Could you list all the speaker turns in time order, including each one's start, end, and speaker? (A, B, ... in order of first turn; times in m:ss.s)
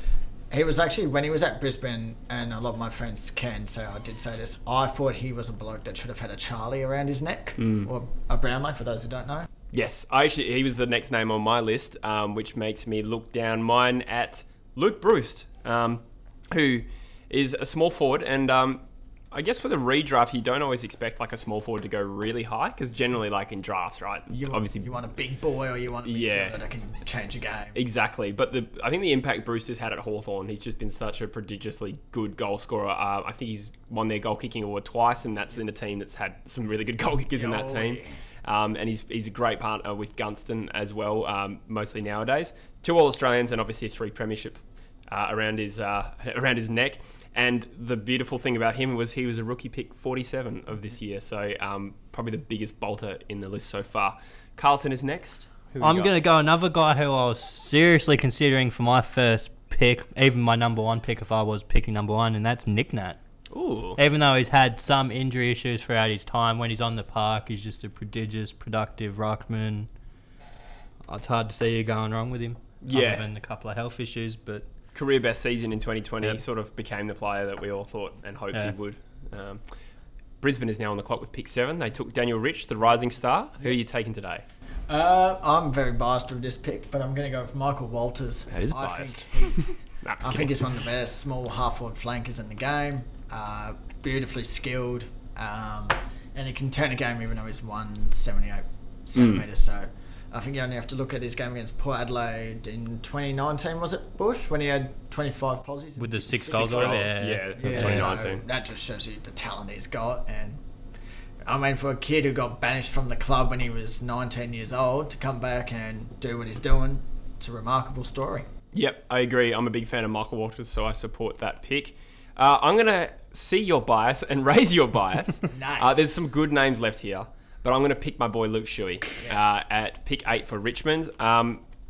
0:00.5-0:09.5 A
0:07.6-0:07.9 B
0:09.7-0:24.9 B
0:24.3-0:27.8 A
0:26.0-0:26.6 B
0:27.7-0:56.1 B
0:37.3-0:38.1 A
0:55.8-1:03.2 C
1:03.5-1:04.0 B
1:04.0-1:09.9 C
1:11.0-1:14.7 C
1:12.8-1:13.3 B
1:14.9-1:19.6 B
1:20.4-1:24.4 B
1:24.9-1:50.6 A
1:28.5-1:30.6 B
1:39.2-1:39.4 B
1:46.0-1:48.1 C
1:46.4-1:48.4 B
1:51.4-1:58.4 A
1:58.7-2:11.6 B
2:05.5-2:06.1 A